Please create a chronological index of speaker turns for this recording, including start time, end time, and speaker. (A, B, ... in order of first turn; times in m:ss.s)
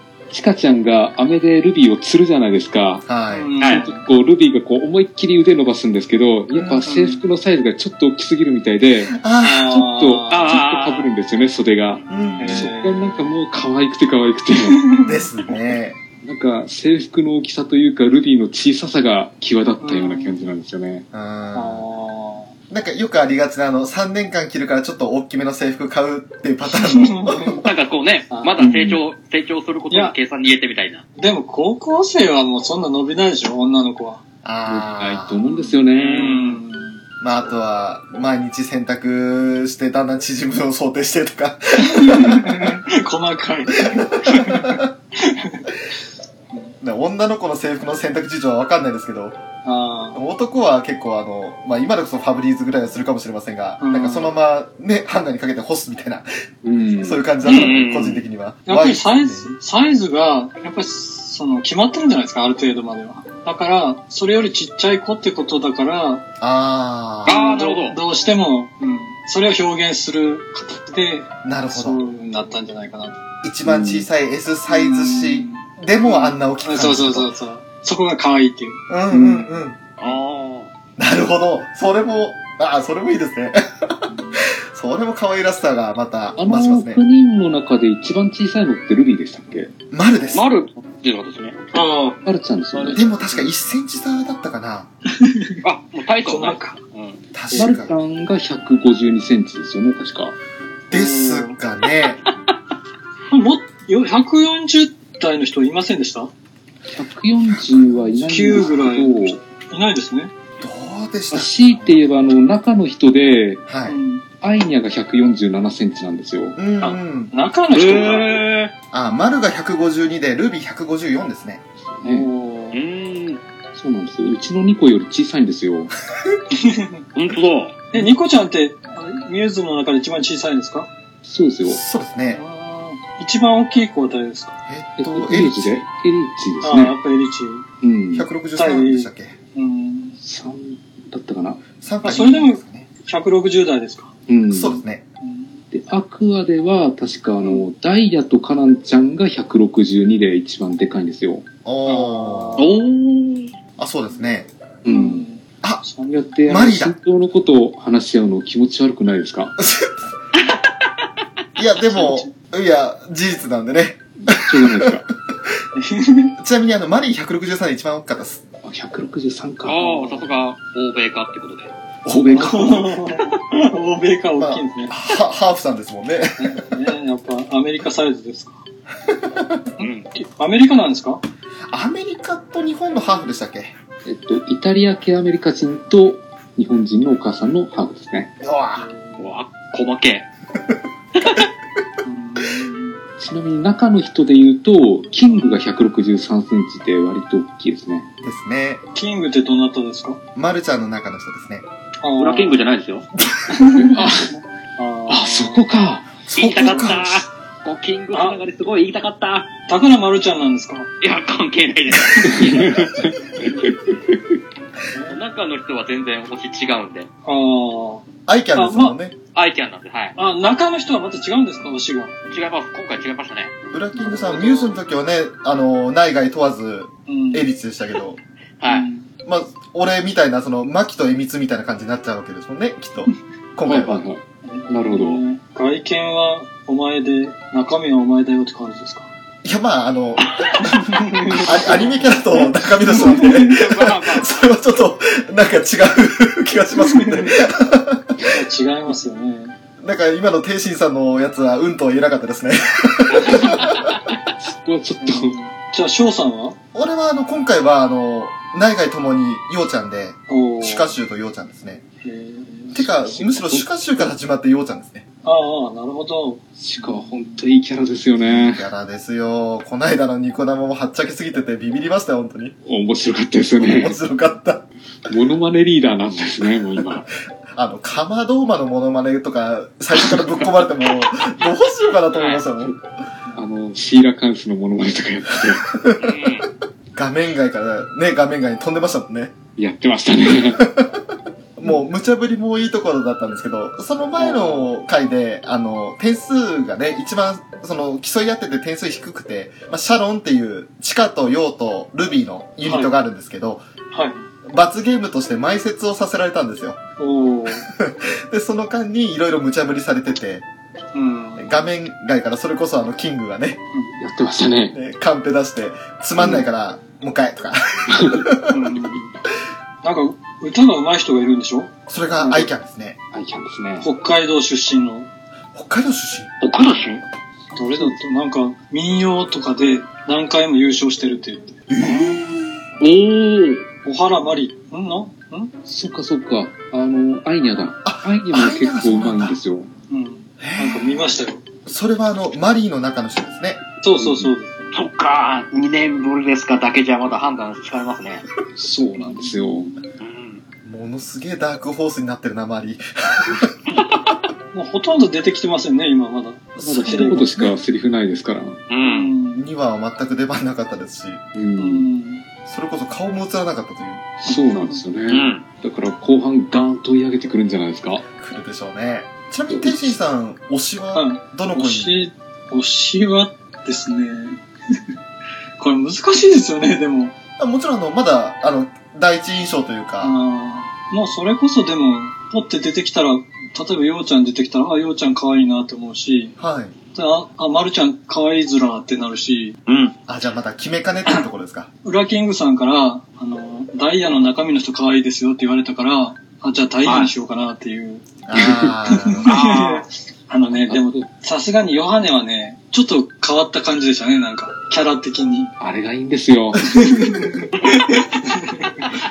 0:00.3-0:03.0 A
0:03.0-0:03.5 B
0:03.3-0:04.0 C
0:03.7-0:14.8 A
0:06.5-0:06.9 B
0:06.8-0:07.2 C
0:09.1-0:09.6 B
0:09.4-0:10.6 C
0:10.3-0:11.1 D
0:12.1-0:12.7 B
0:12.4-0:13.3 C
0:14.6-0:15.2 C
0:15.0-0:16.0 B
0:16.2-0:21.1 A
0:19.8-0:20.4 C
0:21.1-0:21.8 B
0:21.5-0:22.5 C
0:22.7-0:27.6 B
0:26.8-0:27.6 C
0:27.6-0:31.0 D
0:28.3-0:28.6 C
0:28.6-0:29.0 A
0:31.2-0:34.2 C
0:34.4-0:35.4 B
0:34.7-0:36.4 A
0:35.4-0:37.0 C
0:35.9-0:36.6 D
0:37.2-0:42.8 B
0:41.8-0:45.7 C
0:43.9-0:44.9 B
0:46.8-0:49.4 B
0:49.6-0:50.2 C
0:50.1-0:56.3 B
0:53.8-0:54.3 C
0:56.6-0:57.4 A
0:57.0-0:59.5 B
0:57.4-0:57.8 C
0:57.4-0:58.2 D
0:58.6-1:06.2 C
1:06.4-1:07.5 B
1:07.2-1:08.0 D
1:07.3-1:13.2 C
1:11.4-1:12.0 B
1:13.4-1:17.3 B
1:13.6-1:14.1 A
1:14.7-1:19.5 C
1:18.9-1:19.8 B
1:20.0-1:20.7 D
1:21.0-1:27.0 B
1:24.1-1:24.4 C
1:26.4-1:29.7 A
1:29.9-1:30.4 B
1:30.3-1:31.6 D
1:31.7-1:33.5 C
1:32.2-1:33.1 A
1:32.9-1:34.9 B
1:35.1-1:35.6 C
1:35.6-1:37.2 D
1:36.2-1:36.8 C
1:37.3-1:38.0 B
1:37.5-1:37.8 C
1:37.5-1:40.4 A
1:40.9-1:41.6 C
1:40.9-1:42.2 B
1:43.3-1:46.3 C
1:46.8-1:49.4 A
1:48.2-1:50.3 C
1:50.6-1:52.2 B
1:51.3-1:53.7 A
1:53.7-1:54.0 B
1:53.8-1:54.3 C
1:54.3-1:56.7 A
1:56.6-1:57.3 B
1:56.8-1:58.5 C
1:57.7-1:58.7 D
1:58.9-2:01.6 B
2:01.8-2:02.3 A
2:02.0-2:02.8 C
2:02.7-2:03.4 D
2:03.7-2:05.9 A
2:06.5-2:07.0 C
2:07.1-2:07.8 D
2:07.9-2:10.9 C
2:11.2-2:11.8 A
2:11.6-2:12.4 B
2:12.3-2:14.6 C
2:14.7-2:15.8 B
2:15.0-2:17.0 A
2:16.6-2:17.7 C
2:17.8-2:18.3 A
2:18.1-2:19.4 B
2:18.5-2:20.2 C
2:20.2-2:21.7 A
2:21.8-2:22.9 B
2:22.0-2:24.2 C
2:24.3-2:24.8 A
2:24.5-2:25.0 B
2:25.2-2:25.6 C
2:25.7-2:31.5 A
2:31.6-2:32.6 B
2:31.9-2:32.7 C
2:32.6-2:33.5 D
2:33.8-2:34.5 B
2:34.8-2:35.2 A
2:34.9-2:36.1 C
2:36.0-2:39.5 A
2:36.5-2:37.0 B
2:39.6-2:40.1 B
2:41.6-2:45.0 B
2:41.9-2:42.3 C
2:44.3-2:45.0 A
2:45.8-2:46.3 C
2:46.4-2:48.4 B
2:48.6-2:50.2 A
2:49.6-2:51.7 D
2:49.8-2:50.2 C
2:52.0-2:52.5 B
2:52.1-2:52.9 A
2:52.3-2:55.0 C
2:54.4-2:56.7 B
2:56.4-2:58.6 C
2:59.0-2:59.7 B
2:59.8-3:01.2 C
2:59.8-3:00.1 D
3:01.7-3:03.8 B
3:04.0-3:08.3 A
3:08.4-3:08.9 B
3:08.8-3:09.3 C
3:09.2-3:10.3 D
3:12.0-3:13.0 C
3:13.2-3:18.1 A
3:15.3-3:15.6 C
3:18.2-3:18.8 B
3:18.9-3:20.2 C
3:20.3-3:21.6 B
3:22.0-3:22.7 C
3:22.2-3:23.1 D
3:23.5-3:25.6 C
3:23.8-3:24.3 A
3:25.1-3:26.2 A
3:26.3-3:27.2 B
3:26.3-3:29.5 D
3:26.7-3:27.0 C
3:28.1-3:28.4 C
3:29.7-3:30.9 C
3:31.0-3:32.9 D
3:32.3-3:34.4 A
3:34.9-3:35.2 C
3:35.1-3:37.1 D
3:37.2-3:39.0 C
3:38.2-3:39.1 B
3:39.3-3:40.2 D
3:40.2-3:42.2 C
3:42.3-3:43.5 D
3:43.7-3:48.2 B
3:44.0-3:44.7 C
3:47.1-3:47.4 C
3:48.6-3:48.9 D
3:48.6-3:49.1 C
3:49.2-3:54.0 B
3:53.6-3:55.2 A
3:54.4-3:59.1 C
3:59.4-4:08.3 B
4:00.6-4:03.6 C
4:03.2-4:04.5 D
4:06.8-4:07.5 C
4:08.2-4:09.5 C
4:09.8-4:13.8 B
4:13.1-4:13.6 C
4:14.4-4:15.4 A
4:15.0-4:16.6 C
4:16.7-4:21.8 B
4:20.3-4:20.9 C
4:22.0-4:22.8 C
4:22.7-4:25.0 B
4:22.8-4:23.8 A
4:25.2-4:27.3 C
4:26.6-4:28.6 A
4:28.2-4:32.5 B
4:32.6-4:34.0 A
4:33.6-4:34.7 B
4:35.1-4:37.1 A
4:37.5-4:42.8 B
4:42.1-4:42.4 D
4:43.3-4:45.7 A
4:45.7-4:46.1 B
4:46.0-4:46.5 D
4:46.9-4:49.4 B
4:49.6-4:50.6 A
4:50.5-4:51.0 B
4:51.6-5:03.6 B
4:54.2-4:54.6 C
5:02.6-5:02.9 C
5:03.9-5:04.2 C
5:04.4-5:06.8 B
5:07.0-5:07.7 C
5:07.7-5:10.4 B
5:10.9-5:11.5 C
5:11.4-5:13.6 B
5:14.0-5:14.8 A
5:14.7-5:18.7 B
5:16.2-5:16.4 A
5:17.9-5:18.3 A
5:18.5-5:19.2 C
5:19.8-5:22.5 C
5:21.9-5:23.0 B
5:23.1-5:23.9 A
5:23.8-5:25.1 C
5:25.5-5:26.3 B
5:26.4-5:27.0 D
5:27.5-5:31.6 C
5:27.6-5:28.0 A
5:31.7-5:32.6 B
5:32.8-5:33.6 D
5:33.8-5:35.5 C
5:35.6-5:39.7 A
5:37.8-5:39.4 B
5:39.9-5:41.4 C
5:40.4-5:41.1 B
5:41.6-5:43.6 B
5:43.8-5:44.7 C
5:44.0-5:44.3 A
5:44.7-5:48.2 D
5:48.5-5:49.7 A
5:50.0-5:50.4 D
5:50.6-5:53.5 B
5:54.5-5:57.5 C
5:56.6-5:57.6 B
5:56.6-5:58.7 A
5:58.7-5:59.1 D
5:58.7-5:59.4 C
5:59.4-6:01.2 B
6:01.3-6:01.9 A
6:01.6-6:02.2 C
6:02.4-6:04.2 B
6:04.2-6:08.0 A
6:04.3-6:04.8 C
6:05.1-6:05.4 D
6:08.1-6:11.9 B
6:09.5-6:09.9 A
6:10.9-6:14.4 C
6:15.6-6:17.1 C
6:17.4-6:20.2 B
6:20.0-6:26.3 C
6:26.4-6:26.7 B
6:26.9-6:29.6 C
6:29.6-6:29.9 D
6:30.1-6:31.7 B
6:31.8-6:38.2 C
6:36.8-6:37.1 D
6:38.2-6:39.3 B
6:38.3-6:38.7 A
6:38.8-6:45.5 C
6:39.2-6:39.8 D
6:40.5-6:41.1 A
6:45.6-6:46.6 A
6:46.6-6:48.7 C